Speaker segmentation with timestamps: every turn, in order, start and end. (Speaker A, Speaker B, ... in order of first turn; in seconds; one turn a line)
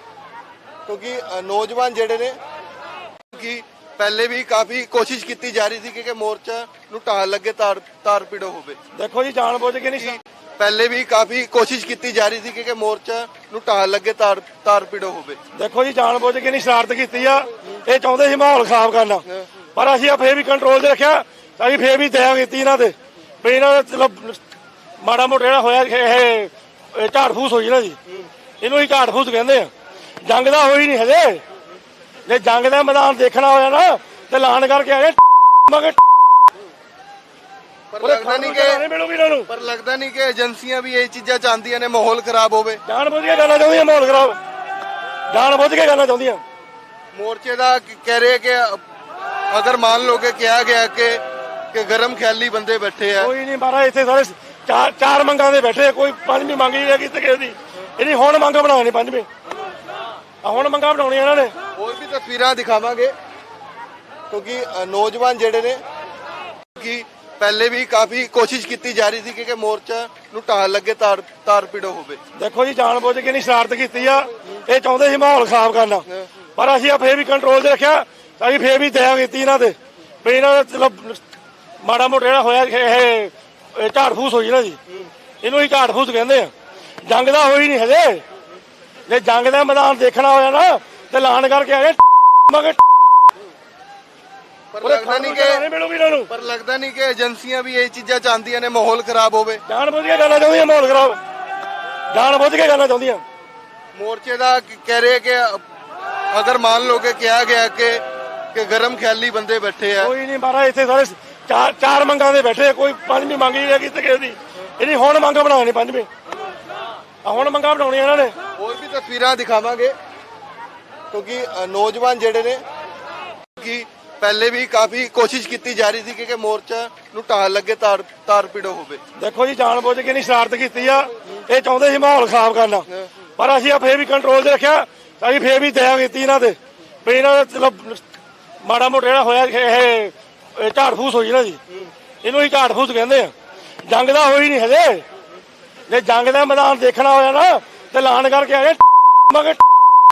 Speaker A: 0.9-2.4
Speaker A: 3.3-8.8
Speaker B: 8.9-10.2
Speaker A: 10.0-15.4
Speaker B: 15.5-24.4
Speaker B: 25.0-28.0
Speaker B: 28.6-29.7
Speaker B: 30.2-31.4
Speaker B: 32.3-36.0
Speaker A: 37.9-38.8
Speaker B: 38.0-39.5
Speaker A: 39.5-42.8
Speaker B: 42.9-44.4
Speaker B: 45.3-46.4
Speaker A: 47.1-48.8
Speaker A: 49.5-51.2
Speaker A: 51.7-53.3
Speaker B: 53.2-59.3
Speaker B: 60.4-61.5
Speaker A: 61.8-63.1
Speaker A: 64.3-65.8
Speaker A: 66.8-72.2
Speaker B: 72.4-81.2
Speaker B: 81.8-84.8
Speaker B: 85.4-86.5
Speaker B: 87.0-88.2
Speaker B: 89.1-92.8
Speaker A: 94.7-95.7
Speaker B: 94.8-96.3
Speaker A: 96.3-99.6
Speaker B: 99.7-101.2
Speaker B: 102.1-103.2
Speaker A: 104.0-105.6
Speaker A: 106.3-110.1
Speaker B: 110.0-116.1
Speaker B: 117.2-118.3
Speaker A: 118.6-120.0
Speaker A: 121.1-122.6
Speaker A: 123.6-129.0
Speaker B: 129.2-138.0
Speaker B: 138.6-141.6
Speaker B: 142.2-143.3
Speaker B: 143.9-145.1
Speaker B: 145.9-149.6